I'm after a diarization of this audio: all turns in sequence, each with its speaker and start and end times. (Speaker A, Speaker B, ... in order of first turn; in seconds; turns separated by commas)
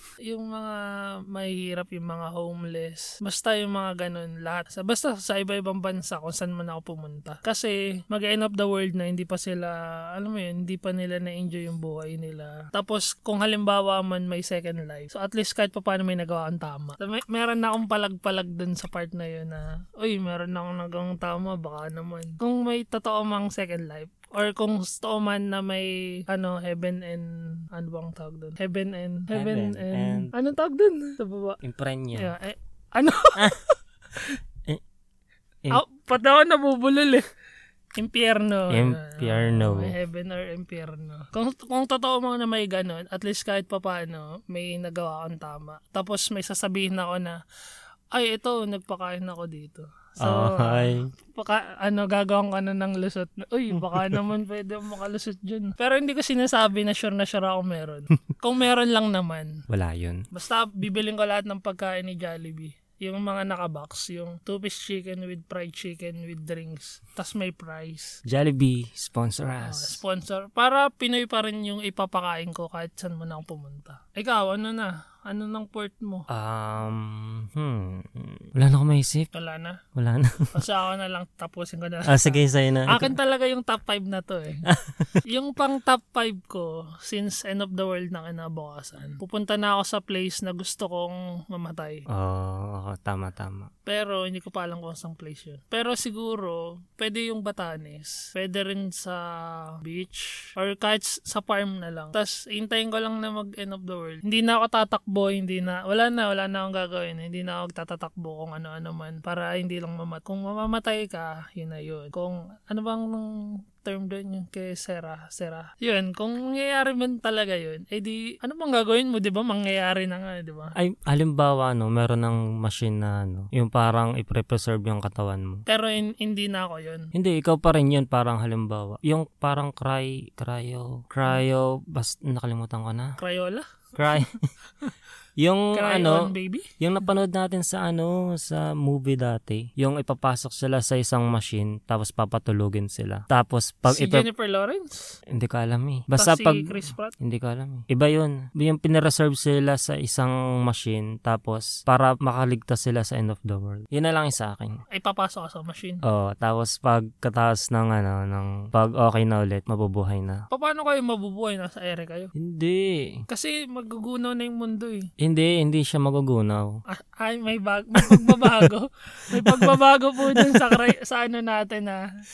Speaker A: 0.3-31.6, Speaker B: 29.3-30.3, Speaker B: 31.6-32.3, Speaker A: 32.1-33.6, Speaker A: 35.7-37.2, Speaker A: 38.0-47.4, Speaker B: 38.7-39.9, Speaker A: 48.1-59.6, Speaker B: 50.2-51.1, Speaker B: 59.7-60.2, Speaker A: 60.3-68.2, Speaker B: 68.2-70.0, Speaker A: 69.6-76.3, Speaker B: 76.3-79.3, Speaker A: 79.3-79.8, Speaker B: 79.9-80.5, Speaker A: 80.5-84.7, Speaker B: 82.1-83.1, Speaker B: 84.7-85.2, Speaker A: 85.2-92.0, Speaker B: 92.1-93.7, Speaker A: 93.9-120.8, Speaker B: 120.8-125.6, Speaker A: 125.7-127.1, Speaker B: 127.1-133.2, Speaker A: 133.2-134.2, Speaker B: 133.9-134.4, Speaker B: 135.4-144.3, Speaker A: 135.7-136.7, Speaker A: 143.9-145.2, Speaker B: 145.3-154.8, Speaker A: 146.1-147.1, Speaker A: 154.9-156.0, Speaker B: 156.0-160.4, Speaker A: 160.5-162.3, Speaker B: 162.3-163.2, Speaker A: 163.3-165.1, Speaker B: 165.2-166.8, Speaker A: 166.9-172.0, Speaker B: 168.0-168.7, Speaker B: 169.3-170.8